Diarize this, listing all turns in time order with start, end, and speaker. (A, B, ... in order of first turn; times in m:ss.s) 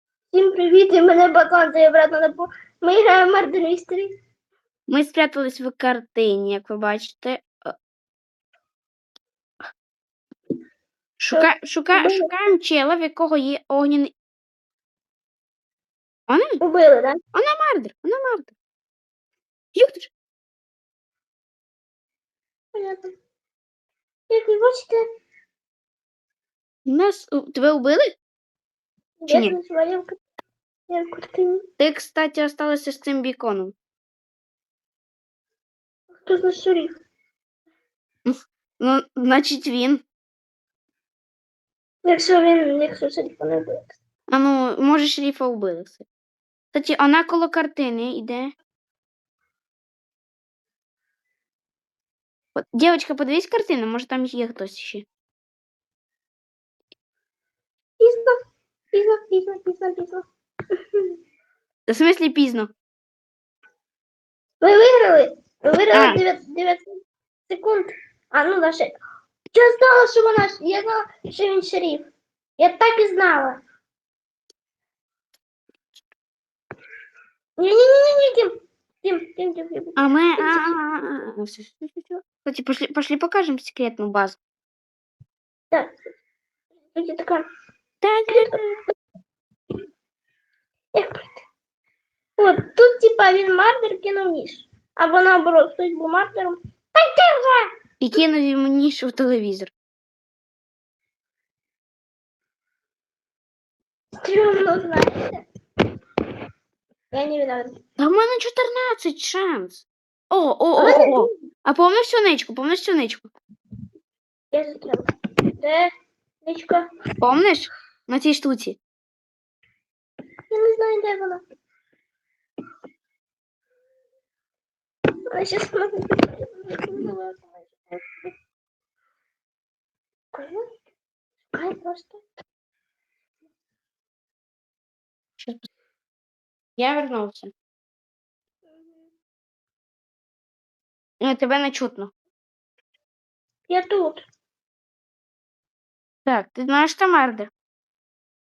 0:00.3-0:04.1 A
0:04.9-0:07.7 B
0:11.2-0:14.1 B
0:11.3-0:12.3 A
0:16.3-0:16.6 B
0:16.6-0:17.2 A
0:17.3-0:18.6 B
0:19.8-0:20.1 B
0:22.7-0:23.1 A
0:24.3-0:25.0 A
0:26.9-0:28.1 B
0:29.2-0:30.2 A
0:29.3-0:29.5 B
0:30.9-0:31.6 A
0:31.8-0:33.7 B
0:36.2-0:36.9 A
0:38.2-0:40.0 B
0:42.0-0:43.9 A
0:44.3-0:46.0 B
0:46.7-0:48.5 B
0:52.5-0:55.1 B
0:58.0-0:58.3 A
0:58.9-1:00.2 A
1:01.9-1:02.7 B
1:04.6-1:06.9 A
1:05.9-1:06.2 B
1:07.5-1:09.0 A
1:09.5-1:13.6 A
1:17.6-1:20.8 A
1:20.0-1:24.4 B
1:27.0-1:27.4 A
1:28.0-1:28.8 B
1:28.3-1:28.6 A
1:30.9-1:31.3 A
1:32.4-1:37.7 A
1:38.0-1:39.7 B
1:44.2-1:45.4 A
1:47.1-1:47.8 A
1:48.0-1:53.3 B
1:50.8-1:51.3 A
1:54.5-1:55.1 A
1:55.6-1:55.9 A
1:56.4-1:56.9 A
1:57.2-1:58.8 B
2:00.5-2:01.4 A
2:05.3-2:08.3 A
2:10.3-2:10.7 A
2:11.5-2:12.2 A
2:15.4-2:15.7 B
2:16.8-2:17.5 B
2:18.7-2:19.0 A
2:21.2-2:22.1 B
2:23.7-2:24.3 A
2:26.2-2:27.5 B